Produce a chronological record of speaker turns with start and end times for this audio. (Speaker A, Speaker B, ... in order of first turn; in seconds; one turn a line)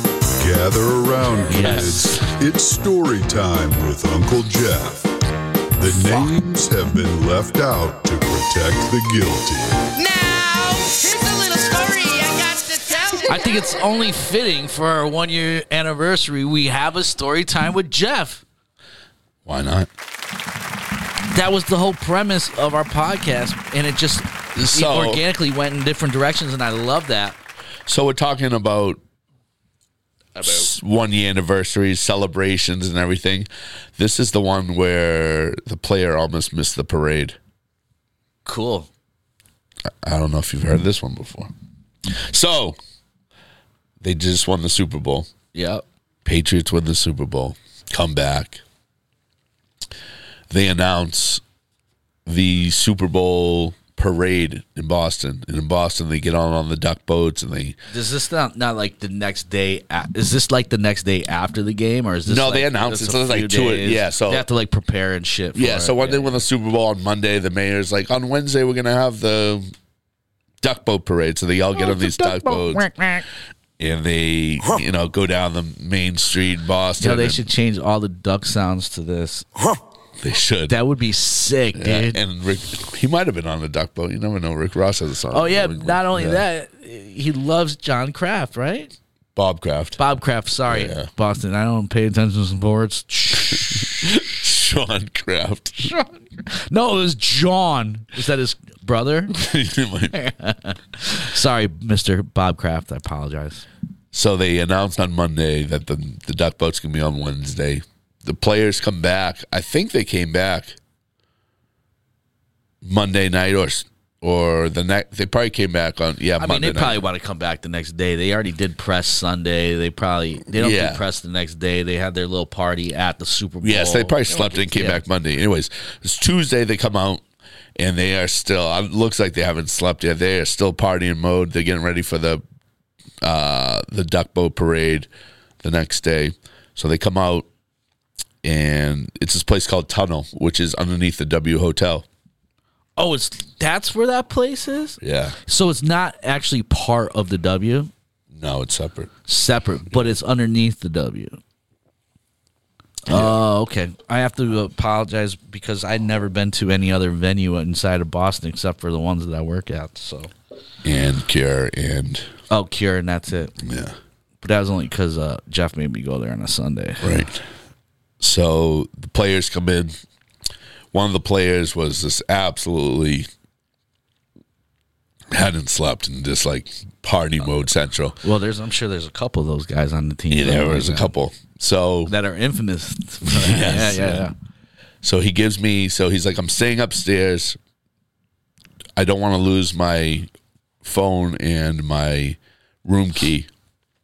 Speaker A: 0.4-5.1
Speaker B: 1.5-2.2
Speaker C: 1.6-2.1
Speaker A: 5.7-9.9
Speaker B: 5.8-6.4
Speaker D: 9.9-13.7
Speaker B: 13.2-18.4
Speaker C: 19.4-19.9
Speaker B: 21.3-27.4
Speaker C: 24.6-25.2
Speaker C: 27.9-29.0
Speaker C: 30.4-37.4
Speaker B: 38.4-38.9
Speaker C: 40.0-41.5
Speaker C: 42.0-42.8
Speaker C: 44.0-45.3
Speaker B: 45.5-45.8
Speaker C: 46.2-48.6
Speaker C: 50.5-51.4
Speaker C: 52.2-57.8
Speaker B: 57.9-66.4
Speaker C: 62.2-64.5
Speaker C: 65.5-69.7
Speaker C: 70.6-72.9
Speaker B: 71.8-73.2
Speaker C: 73.8-77.5
Speaker B: 77.0-79.5
Speaker C: 80.2-80.8
Speaker B: 80.7-82.2
Speaker C: 81.7-86.4
Speaker B: 85.3-88.9
Speaker C: 89.3-90.0
Speaker B: 90.0-93.8
Speaker C: 90.7-91.1
Speaker C: 93.5-95.9
Speaker B: 95.8-99.3
Speaker C: 99.3-100.2
Speaker B: 100.1-103.6
Speaker C: 104.1-110.8
Speaker C: 112.8-117.0
Speaker B: 116.4-125.0
Speaker C: 120.5-121.0
Speaker C: 123.6-127.2
Speaker C: 127.8-132.4
Speaker C: 133.2-135.1
Speaker C: 135.6-137.5
Speaker C: 138.4-142.0
Speaker B: 143.0-147.9
Speaker C: 145.0-145.4
Speaker C: 148.3-149.1
Speaker B: 149.3-151.4
Speaker B: 153.1-160.3
Speaker C: 153.1-153.4
Speaker C: 160.8-162.3
Speaker B: 162.5-163.5
Speaker C: 163.6-163.9
Speaker B: 164.4-167.2
Speaker C: 167.0-167.4
Speaker C: 168.2-169.9
Speaker C: 170.9-173.3
Speaker C: 175.3-178.2
Speaker B: 178.2-181.1
Speaker C: 180.3-182.1
Speaker B: 182.1-184.3
Speaker C: 183.2-184.2
Speaker C: 185.0-187.6
Speaker C: 188.9-190.3
Speaker C: 190.8-193.5